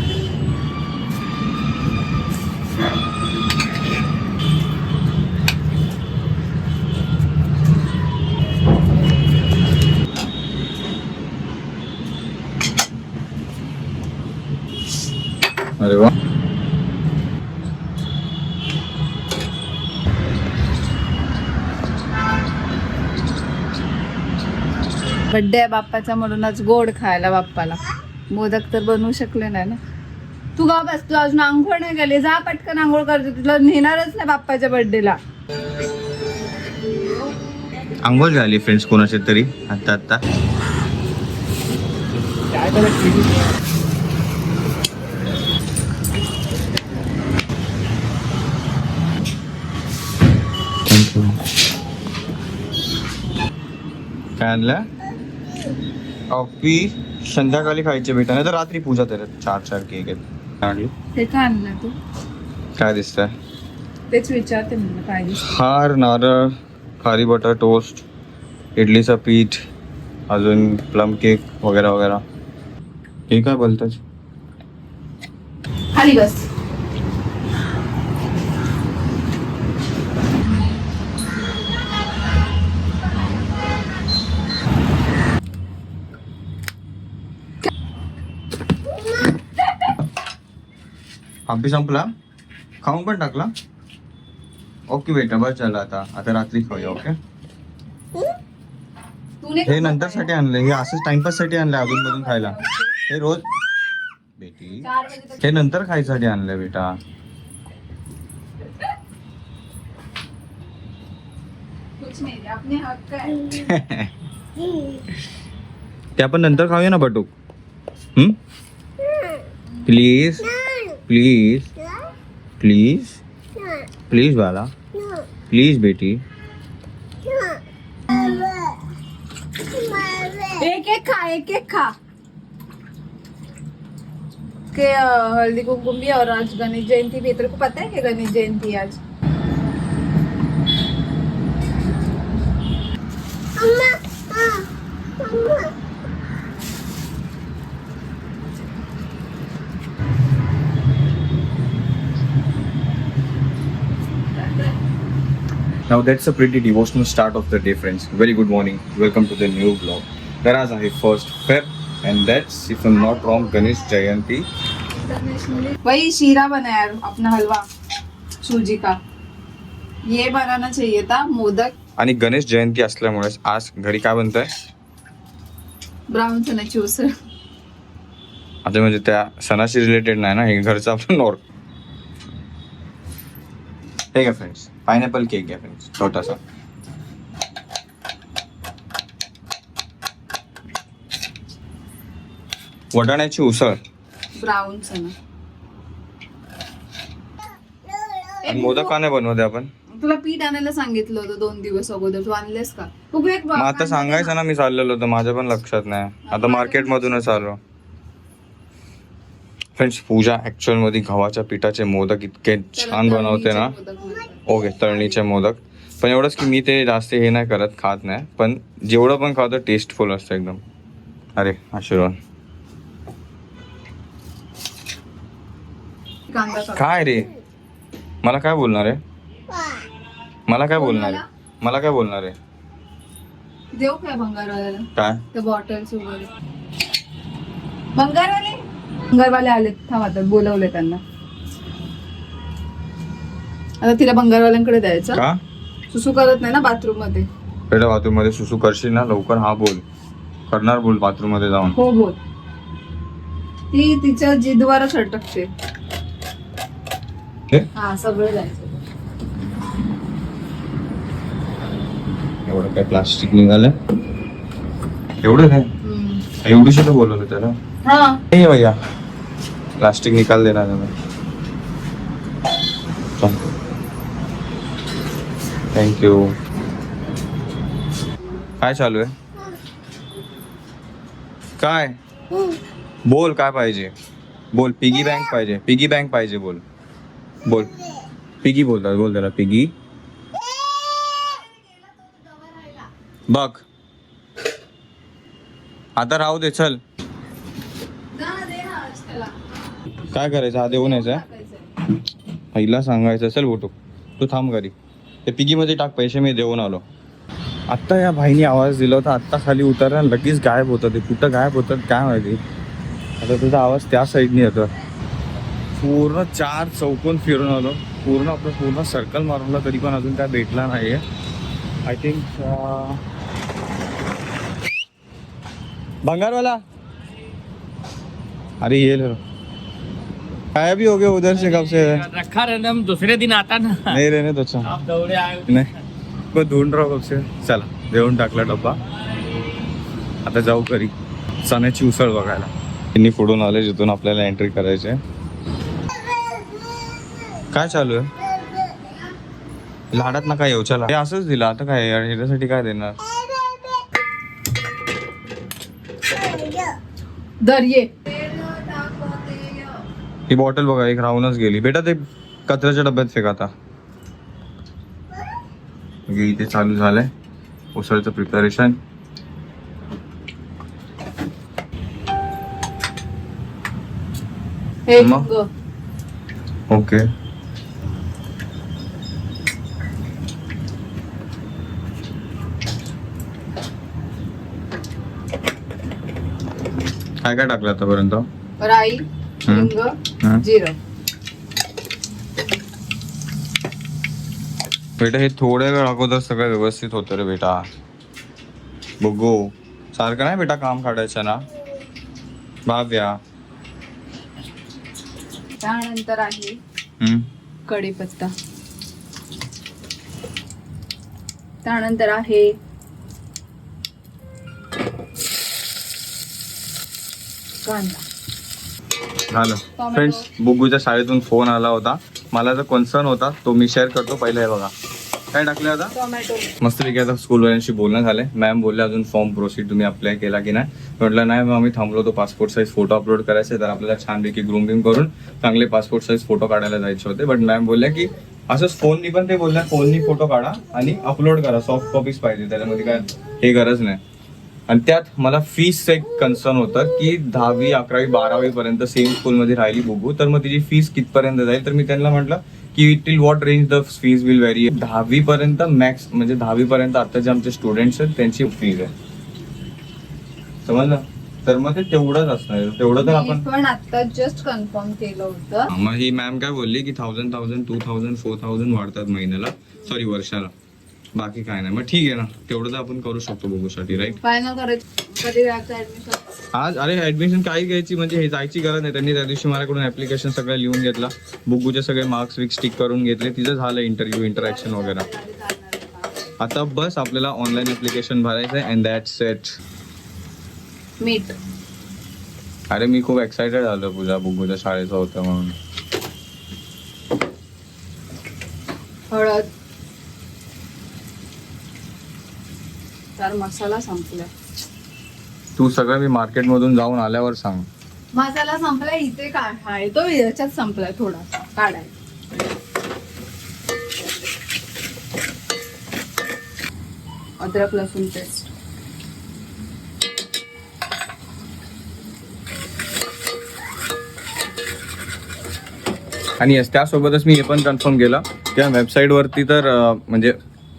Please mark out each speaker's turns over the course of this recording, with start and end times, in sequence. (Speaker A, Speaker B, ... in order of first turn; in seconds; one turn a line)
Speaker A: 15.8-16.1
Speaker B: 25.3-27.8
Speaker B: 28.3-29.8
Speaker B: 30.6-35.2
Speaker A: 38.0-40.2
Speaker C: 42.6-43.3
Speaker A: 50.9-51.4
Speaker A: 54.4-54.8
Speaker A: 56.3-60.9
Speaker B: 61.1-62.0
Speaker A: 62.8-63.3
Speaker B: 64.1-65.6
Speaker A: 65.4-68.0
Speaker A: 68.8-69.6
Speaker A: 70.3-72.2
Speaker A: 73.3-74.0
Speaker B: 75.9-76.4
Speaker A: 91.5-92.1
Speaker A: 92.8-93.5
Speaker A: 94.9-97.2
Speaker B: 99.4-100.3
Speaker A: 99.7-102.5
Speaker B: 101.8-102.9
Speaker A: 103.1-103.4
Speaker A: 104.4-107.0
Speaker B: 104.8-105.5
Speaker B: 112.0-113.6
Speaker A: 113.5-114.1
Speaker A: 116.2-117.3
Speaker A: 119.8-121.7
Speaker A: 122.6-123.2
Speaker A: 124.1-124.7
Speaker A: 125.5-126.2
Speaker B: 128.1-128.6
Speaker B: 130.4-131.9
Speaker B: 134.7-139.0
Speaker A: 155.9-164.5
Speaker B: 163.1-163.9
Speaker B: 164.9-167.7
Speaker B: 168.4-169.0
Speaker B: 170.1-171.7
Speaker A: 172.0-174.5
Speaker B: 176.1-177.1
Speaker A: 178.6-181.4
Speaker A: 184.1-186.4
Speaker A: 192.9-193.8
Speaker B: 194.4-195.1
Speaker B: 198.4-198.9
Speaker A: 198.5-199.7
Speaker B: 199.9-204.3
Speaker A: 203.5-207.6
Speaker B: 206.2-207.4
Speaker A: 209.8-213.7
Speaker B: 212.7-215.2
Speaker A: 214.4-220.6
Speaker A: 221.4-222.2
Speaker B: 226.3-226.8
Speaker A: 226.7-227.3
Speaker A: 228.2-229.0
Speaker A: 230.5-232.3
Speaker B: 230.7-231.2
Speaker B: 233.7-236.3
Speaker A: 234.9-235.2
Speaker B: 237.9-241.0
Speaker B: 243.8-245.2
Speaker A: 245.1-245.4
Speaker B: 245.9-247.3
Speaker A: 247.7-249.8
Speaker A: 250.5-251.8
Speaker B: 251.7-252.2
Speaker B: 253.7-255.5
Speaker B: 257.7-258.8
Speaker A: 262.4-263.7
Speaker A: 265.2-265.7
Speaker B: 265.8-266.2
Speaker A: 266.4-267.6
Speaker B: 267.8-268.2
Speaker A: 268.3-268.8
Speaker A: 269.8-270.9
Speaker A: 275.7-276.4
Speaker A: 278.6-279.1
Speaker A: 281.6-281.9
Speaker A: 283.1-283.9
Speaker A: 284.5-286.6
Speaker A: 287.4-287.7
Speaker A: 288.4-289.7
Speaker B: 291.1-292.9
Speaker A: 293.3-293.6
Speaker A: 296.0-296.8
Speaker B: 298.1-299.4
Speaker A: 300.1-301.2
Speaker B: 300.6-301.7
Speaker A: 302.5-304.7
Speaker A: 305.2-306.9
Speaker A: 307.7-312.4
Speaker A: 313.2-314.7
Speaker A: 315.8-321.0
Speaker A: 321.8-323.0
Speaker A: 326.0-326.6
Speaker A: 328.6-329.2
Speaker A: 330.5-332.1
Speaker C: 331.8-333.9
Speaker A: 333.9-335.7
Speaker C: 334.9-335.4
Speaker A: 336.3-338.8
Speaker A: 340.2-345.0
Speaker A: 347.5-348.1
Speaker A: 349.9-353.0
Speaker B: 357.4-359.8
Speaker A: 360.3-363.5
Speaker A: 366.1-367.1
Speaker A: 367.7-368.8
Speaker B: 374.9-375.5
Speaker A: 375.0-375.3
Speaker A: 376.7-377.0
Speaker A: 387.2-388.3
Speaker B: 388.6-390.8
Speaker A: 389.5-389.7
Speaker A: 395.0-397.7
Speaker A: 399.0-401.4
Speaker A: 402.6-403.2
Speaker B: 405.6-406.6
Speaker A: 407.0-407.3
Speaker B: 407.6-408.3
Speaker B: 411.6-412.5
Speaker B: 417.6-418.0
Speaker A: 419.3-424.7
Speaker B: 419.8-420.3
Speaker A: 425.3-425.9
Speaker B: 425.9-426.5
Speaker A: 426.6-444.0
Speaker A: 444.7-458.9
Speaker A: 460.6-463.4
Speaker B: 463.0-465.7
Speaker A: 465.7-470.5
Speaker A: 471.1-474.1
Speaker B: 474.0-476.3
Speaker A: 476.5-485.1
Speaker B: 484.3-486.2
Speaker A: 486.4-489.6
Speaker B: 491.0-491.3
Speaker A: 492.7-495.6
Speaker B: 499.1-499.5
Speaker B: 503.2-504.3
Speaker A: 505.6-507.7
Speaker B: 508.1-511.9
Speaker B: 517.4-518.5
Speaker A: 526.4-530.4